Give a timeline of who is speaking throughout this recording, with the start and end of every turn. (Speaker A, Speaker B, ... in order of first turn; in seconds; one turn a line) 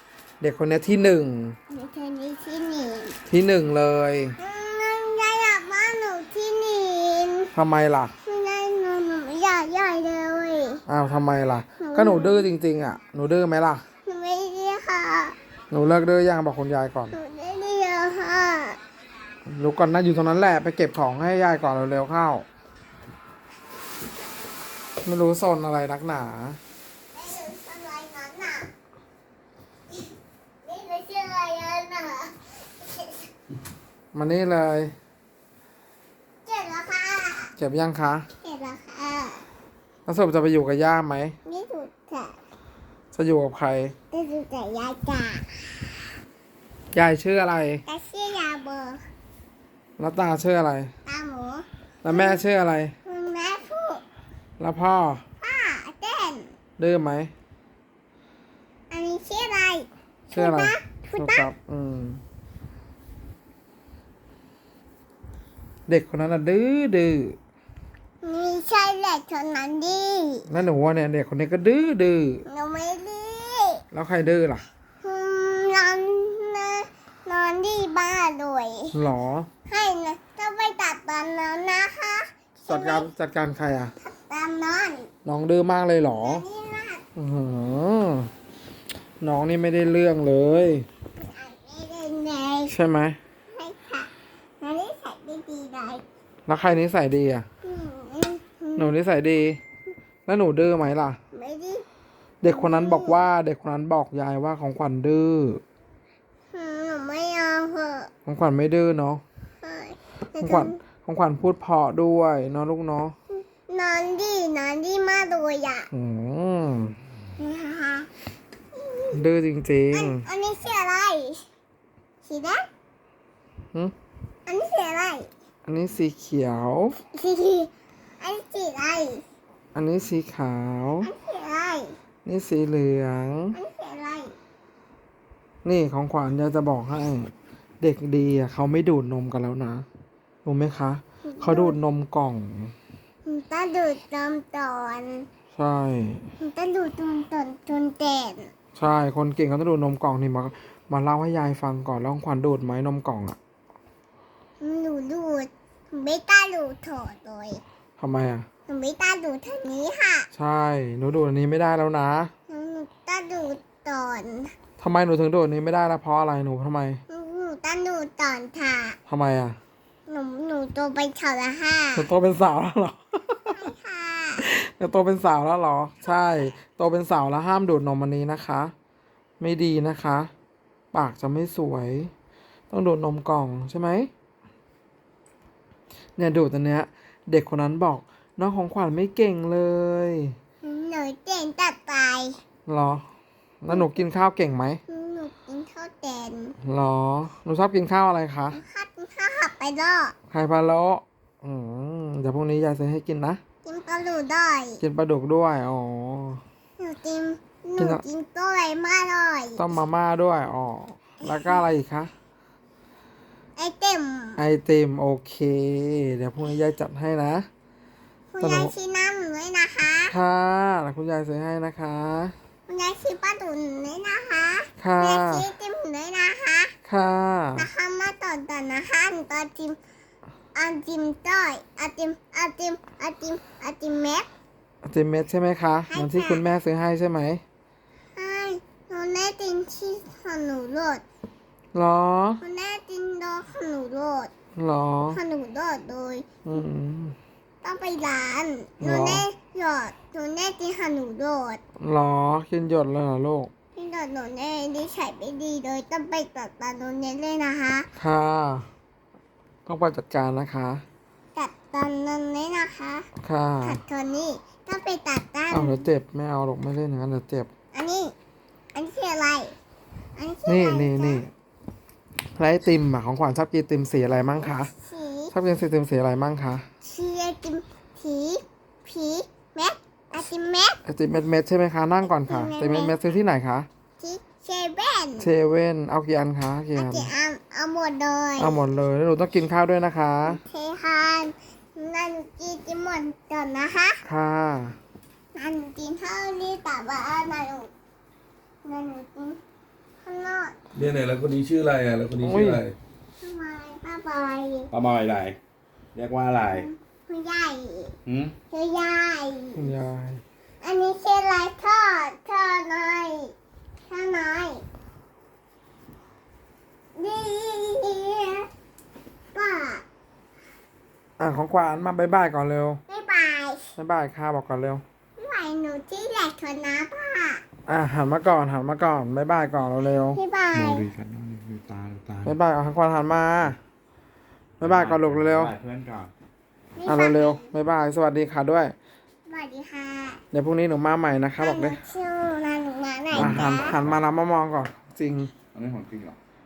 Speaker A: 0.4-1.6
Speaker B: 1.7-3.2
Speaker A: 3.3-4.3
Speaker B: 4.4-7.5
Speaker A: 7.5-8.1
Speaker B: 8.2-10.8
Speaker A: 10.9-13.8
Speaker B: 11.8-12.5
Speaker B: 14.0-15.3
Speaker A: 15.7-17.1
Speaker B: 17.1-18.8
Speaker A: 19.4-22.4
Speaker A: 25.0-26.6
Speaker B: 27.1-28.7
Speaker B: 30.6-33.2
Speaker A: 34.1-34.9
Speaker B: 36.4-37.5
Speaker A: 37.6-38.2
Speaker B: 38.4-39.4
Speaker A: 40.0-41.4
Speaker B: 41.4-42.4
Speaker A: 43.1-43.9
Speaker B: 44.1-45.9
Speaker A: 46.9-47.8
Speaker B: 47.9-49.0
Speaker A: 50.0-50.9
Speaker B: 51.0-52.4
Speaker A: 52.0-52.9
Speaker B: 53.0-54.0
Speaker A: 54.6-55.2
Speaker B: 55.4-56.5
Speaker A: 56.8-57.3
Speaker B: 58.9-61.5
Speaker A: 60.3-62.2
Speaker A: 65.9-67.3
Speaker B: 68.2-70.5
Speaker A: 70.5-72.4
Speaker B: 72.5-73.8
Speaker A: 73.9-74.6
Speaker B: 75.0-78.9
Speaker A: 78.9-79.5
Speaker B: 79.7-83.1
Speaker A: 82.7-83.9
Speaker B: 84.0-85.1
Speaker A: 85.2-86.4
Speaker B: 86.1-87.0
Speaker A: 87.2-88.3
Speaker A: 89.2-90.8
Speaker B: 91.2-92.7
Speaker A: 92.7-93.2
Speaker B: 93.5-94.1
Speaker B: 94.6-96.0
Speaker A: 96.5-97.4
Speaker B: 97.6-98.9
Speaker A: 98.8-99.6
Speaker A: 100.2-101.2
Speaker B: 101.3-101.8
Speaker A: 102.4-105.6
Speaker B: 102.4-103.2
Speaker B: 106.5-108.1
Speaker A: 108.2-109.2
Speaker B: 109.6-110.8
Speaker A: 110.4-113.1
Speaker B: 113.3-115.9
Speaker A: 115.9-116.9
Speaker B: 117.4-118.1
Speaker B: 118.7-119.2
Speaker A: 119.1-120.2
Speaker B: 119.9-121.4
Speaker B: 122.2-122.7
Speaker B: 124.5-125.3
Speaker A: 125.7-127.0
Speaker B: 127.1-129.2
Speaker A: 129.7-131.1
Speaker B: 131.0-131.9
Speaker A: 132.2-133.5
Speaker B: 133.5-134.3
Speaker A: 135.6-139.8
Speaker A: 140.4-142.7
Speaker B: 141.2-141.8
Speaker B: 143.2-145.3
Speaker A: 145.5-146.2
Speaker B: 146.4-148.5
Speaker A: 148.8-153.4
Speaker B: 154.6-157.6
Speaker A: 158.0-158.4
Speaker B: 158.7-160.3
Speaker A: 160.3-162.3
Speaker B: 162.5-164.5
Speaker A: 164.8-167.0
Speaker B: 167.1-169.0
Speaker A: 169.1-169.6
Speaker B: 170.1-172.1
Speaker A: 171.9-173.7
Speaker B: 173.5-174.4
Speaker A: 174.4-178.7
Speaker A: 179.4-180.3
Speaker A: 180.9-182.1
Speaker A: 182.7-184.1
Speaker A: 186.2-190.3
Speaker B: 190.6-192.4
Speaker A: 192.7-193.1
Speaker A: 193.6-194.8
Speaker B: 193.7-194.0
Speaker B: 194.9-196.5
Speaker A: 196.6-198.6
Speaker B: 198.5-200.2
Speaker A: 200.3-203.4
Speaker B: 203.6-204.8
Speaker A: 204.8-206.4
Speaker B: 206.8-209.8
Speaker A: 207.8-208.0
Speaker A: 209.6-212.1
Speaker B: 211.3-211.6
Speaker B: 213.6-214.4
Speaker A: 214.4-217.5
Speaker B: 218.3-220.1
Speaker A: 218.4-218.7
Speaker A: 220.1-222.3
Speaker B: 222.7-226.8
Speaker A: 224.8-225.5
Speaker A: 226.8-227.7
Speaker B: 227.6-229.8
Speaker B: 230.5-234.3
Speaker A: 234.8-237.4
Speaker B: 235.9-236.4
Speaker B: 238.2-241.0
Speaker A: 241.7-242.4
Speaker B: 242.4-244.3
Speaker A: 244.6-245.2
Speaker B: 245.1-246.6
Speaker A: 246.4-247.2
Speaker B: 247.6-251.6
Speaker A: 248.8-249.2
Speaker A: 251.8-253.5
Speaker B: 253.8-257.9
Speaker A: 257.9-258.7
Speaker A: 259.6-260.8
Speaker B: 261.3-263.1
Speaker A: 263.2-263.8
Speaker B: 263.6-265.8
Speaker A: 265.5-267.5
Speaker B: 267.7-268.1
Speaker B: 268.7-269.5
Speaker B: 270.2-271.2
Speaker A: 270.4-271.3
Speaker A: 272.4-274.7
Speaker B: 274.8-275.3
Speaker A: 275.3-276.6
Speaker B: 276.8-280.8
Speaker A: 280.8-283.7
Speaker B: 282.1-282.9
Speaker B: 284.0-285.3
Speaker A: 285.2-287.1
Speaker B: 286.7-288.6
Speaker A: 288.4-290.4
Speaker B: 290.2-294.0
Speaker A: 294.0-294.8
Speaker B: 295.3-297.7
Speaker B: 298.6-299.4
Speaker B: 300.0-300.5
Speaker C: 300.7-302.7
Speaker A: 302.2-302.6
Speaker B: 303.2-304.7
Speaker C: 304.7-305.4
Speaker C: 305.9-306.7
Speaker B: 306.4-308.0
Speaker C: 308.1-308.3
Speaker B: 308.5-309.7
Speaker A: 309.6-310.2
Speaker B: 310.6-313.3
Speaker B: 313.9-314.6
Speaker B: 316.9-318.5
Speaker B: 319.3-319.8
Speaker A: 321.2-322.8
Speaker B: 322.9-323.7
Speaker A: 323.8-324.8
Speaker B: 325.2-327.4
Speaker A: 327.7-330.2
Speaker B: 330.1-330.9
Speaker C: 330.5-332.3
Speaker A: 332.2-333.6
Speaker A: 334.6-335.5
Speaker C: 334.6-336.1
Speaker B: 336.8-337.5
Speaker A: 336.9-338.7
Speaker B: 339.3-340.2
Speaker A: 340.3-341.8
Speaker B: 341.4-343.8
Speaker C: 343.1-344.0
Speaker A: 343.1-345.3
Speaker C: 345.5-346.1